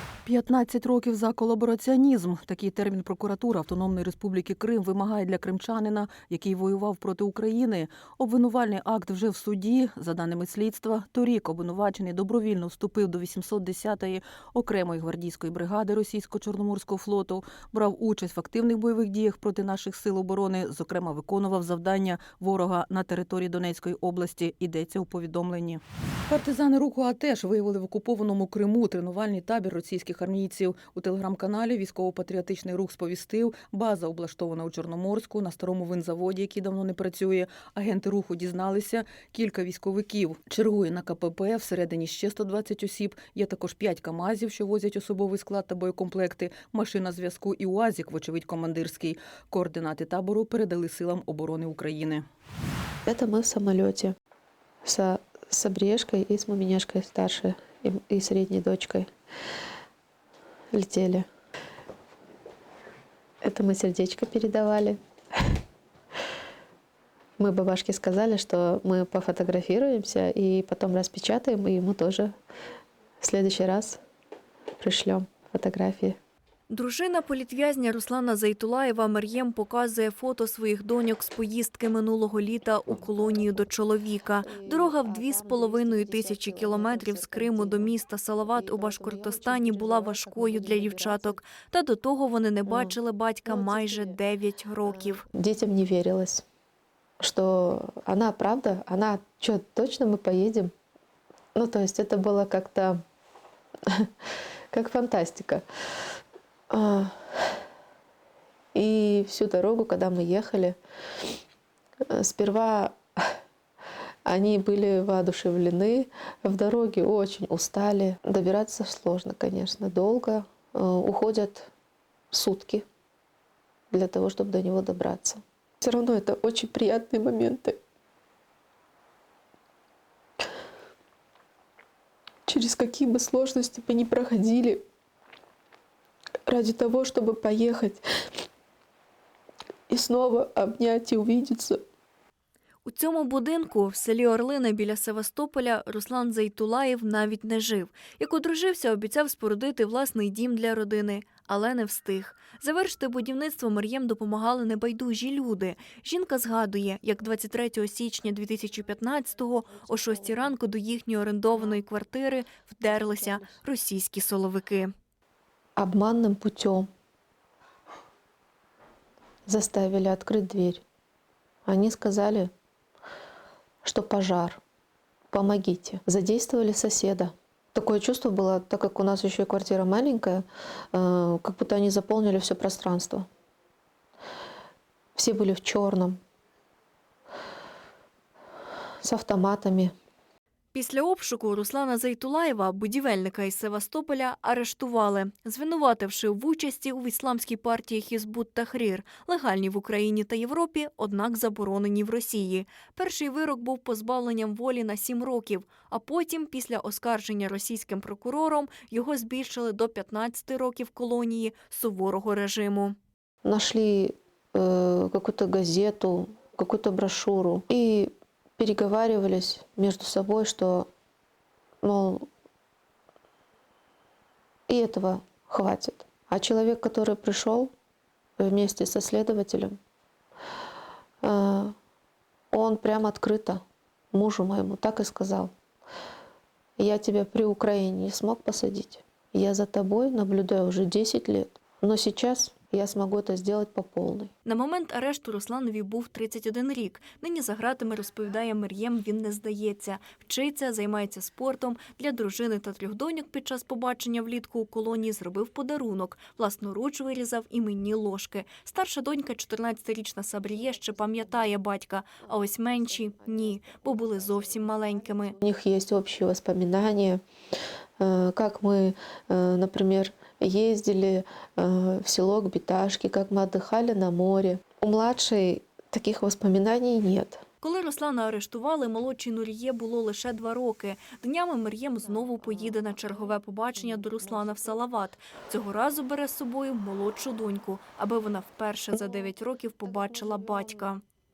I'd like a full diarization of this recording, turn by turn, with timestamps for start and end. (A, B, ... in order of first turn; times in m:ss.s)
0:00.2-0:52.2 A
0:53.0-0:54.1 B
0:54.8-0:59.1 B
1:00.7-1:01.2 B
1:03.4-1:05.0 B
1:07.4-1:12.3 B
1:13.2-1:14.0 B
1:14.8-1:16.2 B
1:16.7-1:35.2 C
1:23.0-1:23.6 B
1:24.4-1:27.9 B
1:28.5-1:31.4 B
1:32.6-1:34.2 B
1:34.8-1:36.4 B
1:37.2-1:40.7 B
1:41.5-1:43.0 B
1:44.7-1:45.6 B
1:46.7-1:47.6 B
1:48.7-1:50.8 B
1:52.1-1:53.0 B
1:54.2-2:01.7 B
2:02.3-2:02.8 B
2:03.9-2:07.8 B
2:12.5-2:14.8 B
2:16.5-2:18.0 B
2:19.9-2:21.8 B
2:22.8-2:44.9 C
2:43.2-2:43.5 B
2:45.8-2:46.9 B
2:49.5-2:50.8 B
2:51.6-2:52.5 B
2:53.8-2:54.6 B
2:55.3-3:03.3 B
3:05.2-3:06.2 B
3:09.0-3:09.9 B
3:10.7-3:33.0 C
3:33.4-3:40.9 B
3:41.8-3:42.3 B
3:44.7-3:47.7 B
3:48.4-3:49.8 B
3:51.2-3:51.7 B
3:52.5-3:53.6 B
3:54.1-3:55.5 B
3:56.8-4:04.3 B
4:04.4-4:25.3 C
4:20.5-4:21.7 B
4:22.2-4:27.2 B
4:28.0-4:37.4 B
4:37.6-4:51.0 C
4:42.0-4:44.8 B
4:48.9-4:50.9 B